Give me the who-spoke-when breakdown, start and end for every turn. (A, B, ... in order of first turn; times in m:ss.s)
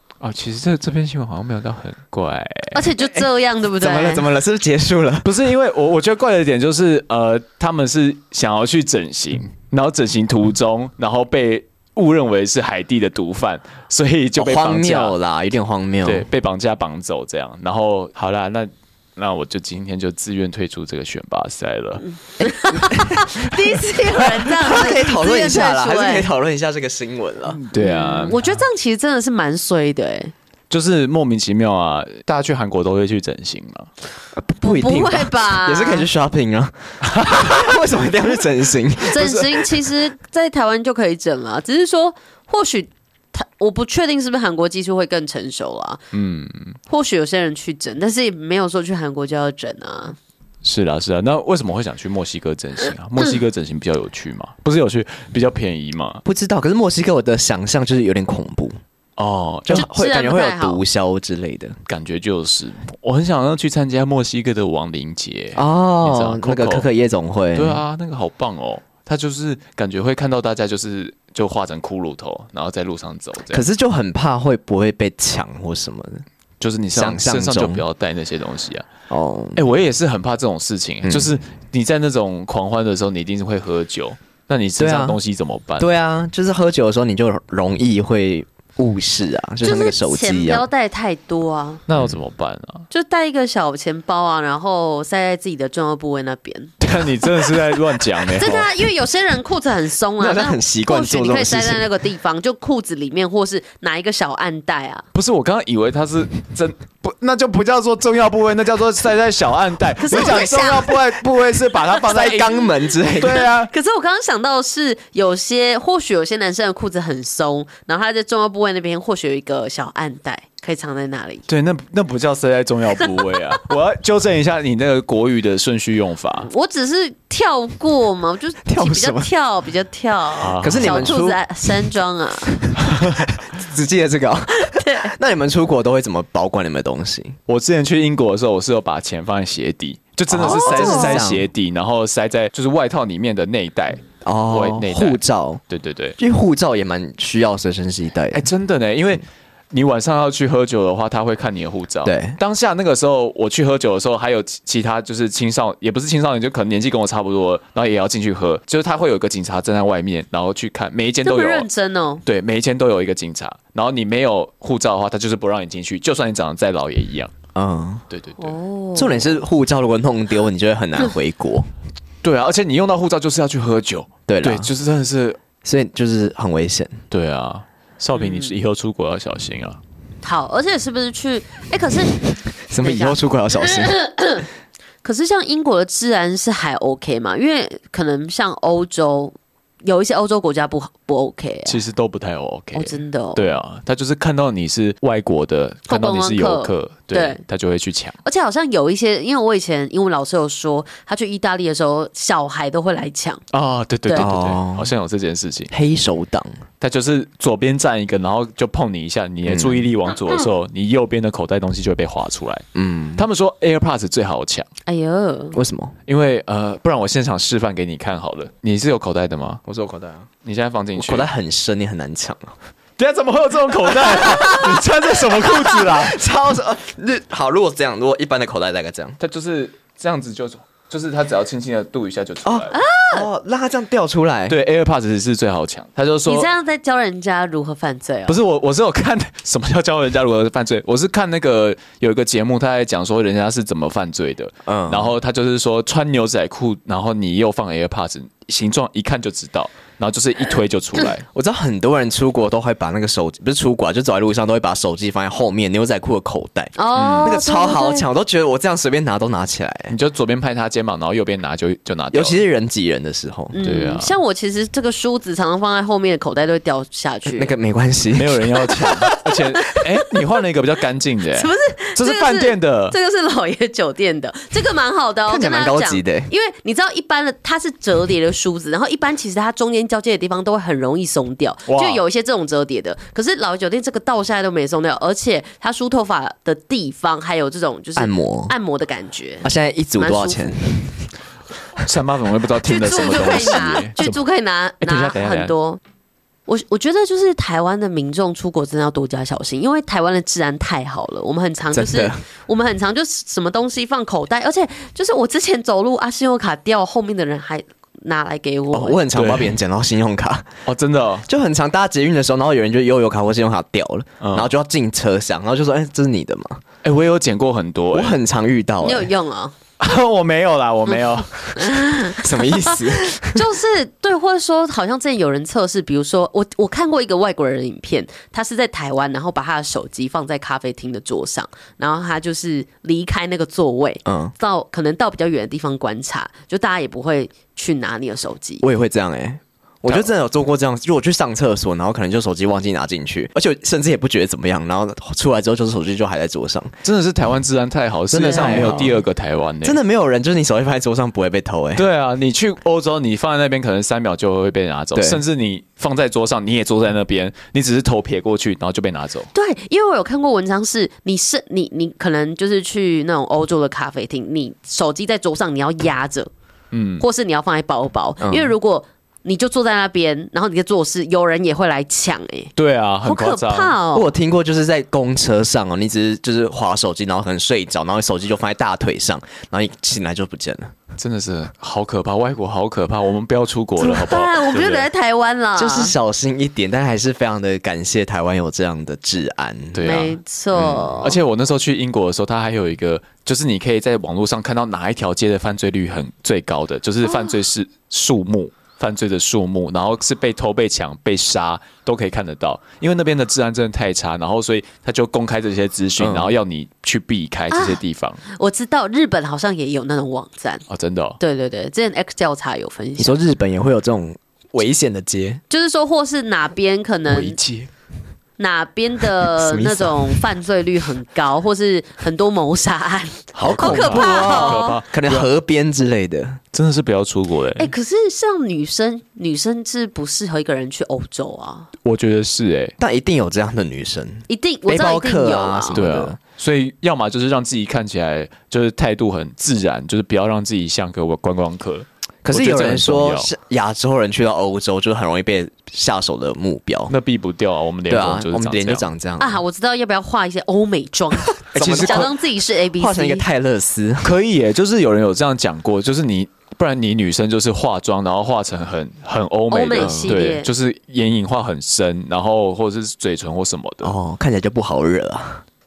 0:00.2-0:02.9 A
0:02.7-0:04.3 B
0:03.8-0:05.3 C
0:05.2-0:15.2 A
0:14.4-0:16.3 C
0:16.0-0:22.1 A
0:22.1-0:26.3 B
0:22.8-0:23.5 C
0:24.6-0:27.6 C
0:27.5-0:28.6 A
0:27.8-0:30.3 B
0:30.7-0:33.9 A
0:34.4-0:39.5 C
0:34.6-0:36.1 B
0:37.0-0:37.6 A
0:39.1-0:46.0 B
0:39.2-0:39.6 A
0:46.1-0:46.8 A
0:46.9-0:50.2 B
0:50.6-0:56.2 A
0:56.2-0:58.8 C
0:59.2-0:59.9 A
0:59.7-1:01.8 C
0:59.7-1:00.8 B
1:01.9-1:06.9 A
1:05.6-1:07.8 C
1:07.6-1:13.6 A
1:13.5-1:16.2 C
1:16.6-1:18.9 A
1:16.9-1:17.8 C
1:19.1-1:19.6 C
1:19.6-1:25.9 A
1:21.0-1:21.3 C
1:24.8-1:25.2 C
1:25.8-1:30.7 C
1:29.6-1:31.8 B
1:31.9-1:32.9 A
1:32.9-1:36.7 B
1:36.8-1:38.7 A
1:38.4-1:45.0 B
1:40.2-1:41.9 C
1:45.1-1:53.7 A
1:50.0-1:51.0 B
1:52.0-1:53.5 C
1:52.2-1:52.5 B
1:53.4-2:01.5 B
2:01.5-2:06.5 A
2:06.5-2:12.7 B
2:08.7-2:09.3 C
2:10.4-2:11.2 A
2:10.6-2:11.4 C
2:12.6-2:17.4 C
2:12.8-2:13.2 A
2:14.7-2:15.1 B
2:17.5-2:26.2 A
2:20.3-2:21.5 C
2:20.4-2:21.2 B
2:24.2-2:25.6 C
2:26.2-2:28.4 C
2:28.3-2:41.7 A
2:32.0-2:32.4 C
2:41.2-2:42.2 B
2:42.2-2:47.3 A
2:47.6-2:48.0 C
2:48.1-2:48.6 A
2:48.4-2:49.4 B
2:49.0-2:51.7 C
2:52.2-2:55.4 A
2:54.3-2:54.7 C
2:55.6-2:57.0 C
2:57.1-2:59.8 A
2:58.2-2:58.5 B
3:00.2-3:02.3 B
3:02.7-3:04.0 C
3:02.8-3:04.5 B
3:05.0-3:11.8 B
3:11.7-3:18.2 A
3:12.7-3:13.5 B
3:15.9-3:17.4 B
3:18.2-3:23.4 B
3:23.5-3:25.7 A
3:24.2-3:24.9 C
3:25.7-3:26.5 C
3:26.8-3:32.6 A
3:29.5-3:29.8 C
3:32.8-3:33.2 C
3:33.2-3:34.7 A
3:34.9-3:35.6 B
3:35.5-3:36.0 C
3:36.1-3:39.6 A
3:39.6-3:40.3 C
3:40.4-3:41.3 A
3:41.0-3:42.6 C
3:43.0-3:46.2 A
3:44.0-3:49.2 C
3:49.2-3:52.8 A
3:52.4-3:54.6 C
3:52.7-3:53.3 B
3:54.5-3:56.5 A
3:56.3-3:58.4 B
3:58.3-4:11.2 A
4:04.7-4:05.1 C
4:11.3-4:20.0 C
4:16.8-4:18.1 B
4:16.9-4:17.3 A
4:19.9-4:22.4 A
4:22.1-4:23.6 C
4:23.5-4:27.5 B
4:23.6-4:24.1 A
4:27.3-4:28.5 C
4:28.2-4:33.0 A
4:31.3-4:50.6 B
4:35.3-4:36.3 C
4:41.7-4:42.0 A
4:48.0-4:48.6 C
4:49.4-4:51.0 C
4:51.8-4:54.2 A
4:52.6-4:55.8 B
4:54.8-4:55.5 A
4:56.5-5:09.0 B
5:01.7-5:02.2 C
5:08.7-5:10.5 C
5:09.1-5:09.6 A
5:10.7-5:11.3 A
5:11.3-5:16.6 C
5:14.2-5:14.5 A
5:16.8-5:18.2 A
5:17.9-5:19.1 C
5:18.8-5:19.6 B
5:19.8-5:21.7 A
5:21.6-5:38.6 B
5:22.1-5:23.5 C
5:34.1-5:34.3 C
5:38.6-5:46.7 C
5:46.8-5:49.8 A
5:48.1-5:49.0 C
5:48.4-5:48.8 B
5:49.6-5:51.8 C
5:51.8-5:59.3 A
5:55.0-5:55.2 C
5:59.3-6:06.3 B
6:06.7-6:07.0 A
6:07.0-6:12.5 B
6:08.2-6:08.6 C
6:12.6-6:13.8 A
6:13.0-6:14.1 B
6:13.9-6:20.7 C
6:21.0-6:24.9 A
6:23.8-6:25.9 B
6:25.6-6:29.9 C
6:29.7-6:48.2 A
6:29.8-6:31.2 B
6:37.1-6:37.3 B
6:46.0-6:46.3 C
6:47.5-6:50.6 B
6:50.7-6:51.2 A
6:51.2-6:53.2 B
6:53.0-6:55.4 C
6:55.5-6:57.4 B
6:57.1-6:57.7 A
6:58.4-7:04.8 B
6:59.4-7:00.2 C
7:03.3-7:05.3 A
7:03.4-7:06.4 C
7:06.5-7:07.7 A
7:07.6-7:11.7 B
7:11.8-7:12.8 A
7:12.8-7:16.2 C
7:14.3-7:15.8 B
7:15.7-7:23.3 A
7:22.2-7:26.9 C
7:26.9-7:28.9 A
7:27.9-7:29.4 C
7:29.2-7:33.2 B
7:31.5-7:32.2 C
7:31.5-7:32.1 A
7:32.8-7:34.1 C
7:34.0-7:44.0 A
7:39.5-7:40.5 B
7:39.8-7:40.2 C
7:43.8-7:45.4 C